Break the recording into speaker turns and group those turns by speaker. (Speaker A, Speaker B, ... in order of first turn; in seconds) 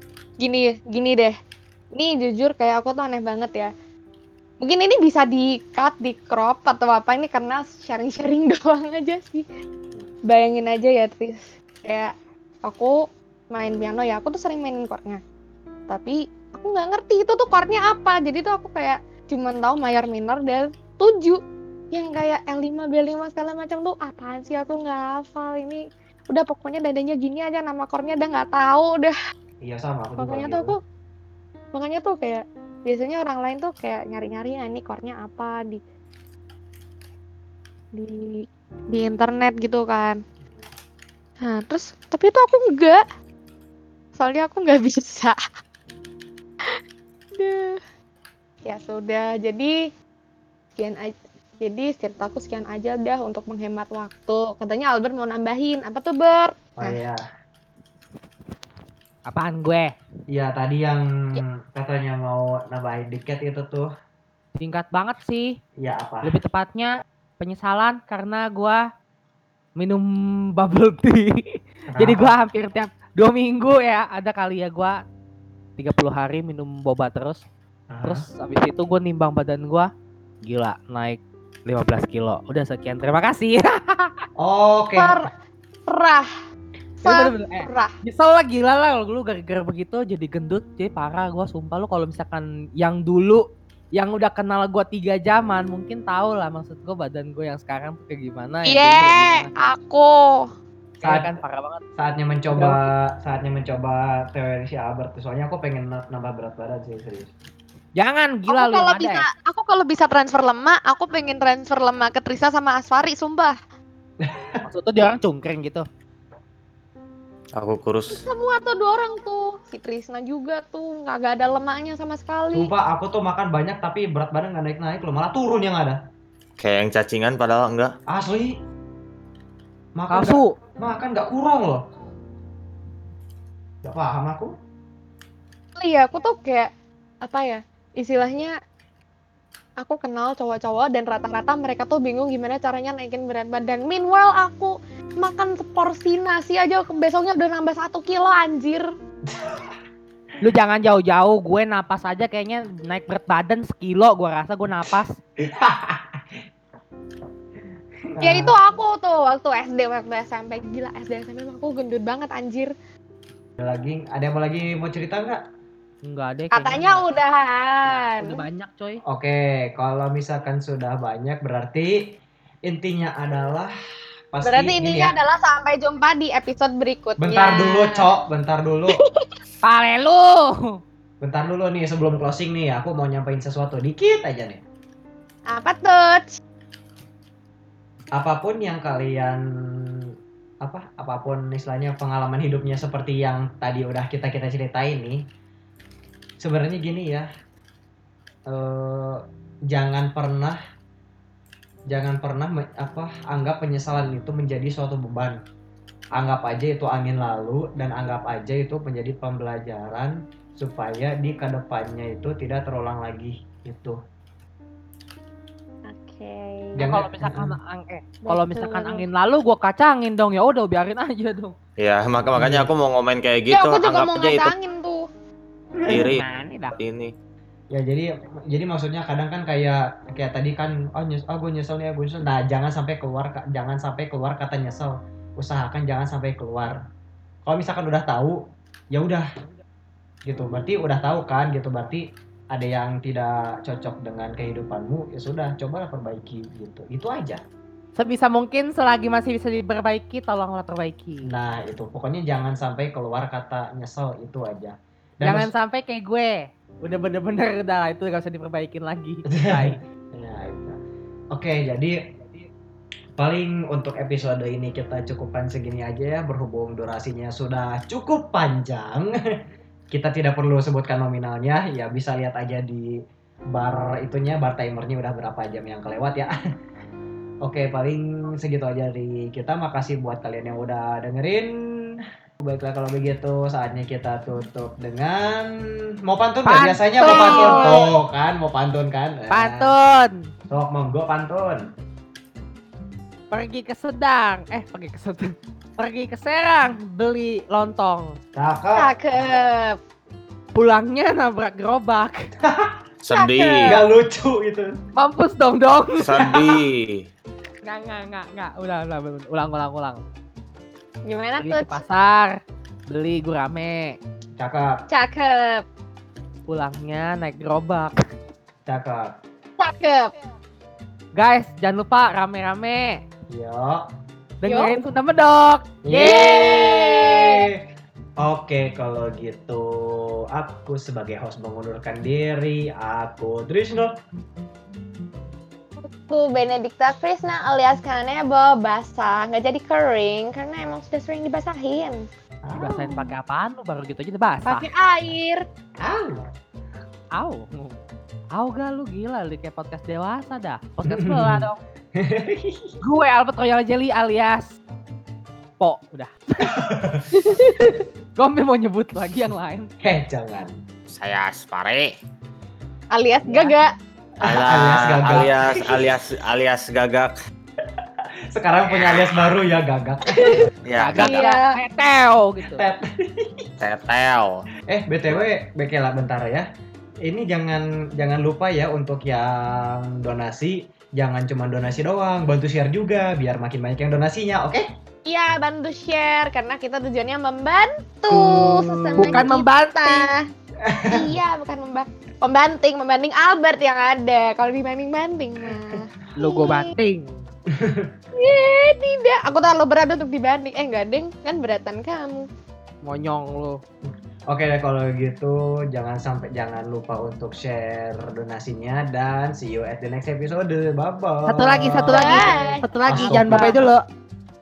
Speaker A: 0.4-1.3, 1.9-3.7, 4.6-9.4, 10.3-12.1, 12.6-12.9, 13.5-15.2, 15.9-21.4, 21.9-29.1, 30.2-30.8, 31.7-35.8, 37.9-40.2, 41.4-43.0, 44.2-45.4, 47.4-47.8, 48.6-49.7, 50.8-57.0, 85.0-85.3, 85.9-86.3, 87.0-87.9, 98.7-100.5, 108.5-113.6, 118.1-122.7, 135.8-136.7, 137.2-138.5, 139.8-148.9, 158.2-162.7, 166.5-168.4, 174.4-178.0, 185.5-186.3, 215.8-216.8, 218.2-219.0, 223.5-225.0, 287.0-287.9, 298.7-299.8, 303.1-303.8, 311.0-311.8, 314.9-315.6, 319.6-320.1, 324.4-324.7, 325.9-327.5, 335.8-342.0, 344.4-345.4, 362.9-363.7, 371.0-371.5, 385.1-390.2, 390.9-396.7, 398.1-402.2, 411.9-413.6
Speaker B: 29.6-30.7, 56.8-57.2, 60.3-63.9, 65.8-66.3, 71.9-72.3, 77.9-78.2, 84.4-85.2, 101.0-101.3, 102.0-107.3, 114.2-114.6, 122.5-126.0, 128.1-128.6, 129.9-131.8, 133.8-134.5, 149.2-149.7, 155.4-156.4, 158.1-158.6, 163.6-165.4, 169.1-172.0, 172.7-173.7, 174.3-175.1, 177.2-179.0, 181.2-184.6, 188.2-190.1, 190.6-195.2, 196.4-197.3, 198.5-200.6, 201.9-205.4, 206.2-214.0, 216.8-217.5, 222.3-222.7, 225.8-226.1, 227.7-236.8, 237.4-238.4, 238.9-239.2, 240.2-247.4, 251.2-255.5, 259.3-260.8, 261.3-262.0, 263.2-269.1, 269.9-272.9, 273.5-276.3, 277.4-289.7, 290.5-291.6, 298.3-298.9, 302.4-302.7, 303.6-304.7, 314.4-314.7, 318.6-319.1, 323.3-323.8, 325.8-327.6, 328.2-333.9, 342.4-343.1, 345.8-346.2, 350.9-352.7, 356.5-357.0, 359.8-360.5, 364.2-365.9, 368.3-370.5, 372.5-373.4, 374.7-376.5, 377.0-384.7, 388.1-389.3, 390.6-391.1, 395.5-395.7, 397.5-397.9, 403.8-412.3, 412.9-413.7
Speaker C: 59.3-59.9, 64.6-65.6, 66.2-68.8, 69.8-75.0, 75.8-77.4, 78.0-79.9, 80.4-84.2, 87.0-93.4, 93.9-99.5, 101.0-101.8, 102.5-102.8, 108.0-109.2, 114.6-115.8, 130.1-130.6, 150.4-155.1, 166.0-167.0, 167.8-169.0, 179.6-180.8, 216.8-221.5, 225.9-226.7, 248.0-251.3, 255.2-259.8, 286.4-287.8, 289.3-290.3, 293.3-298.2, 300.5-302.3, 304.9-306.4, 307.6-310.0, 311.4-314.0, 316.5-317.9, 321.1-323.0, 324.4-325.8, 342.5-344.7, 347.1-347.7, 348.3-351.6, 352.8-354.5, 355.6-356.6, 357.2-359.7, 363.2-363.5, 370.8-372.6, 389.0-390.1, 396.2-397.2, 402.8-403.6, 411.3-413.8
Speaker D: 117.5-118.2, 126.6-127.9, 221.8-224.5, 225.9-226.2, 226.7-227.1, 303.0-303.8, 306.0-307.1, 360.9-361.9, 364.2-367.1, 370.6-371.2, 373.6-374.5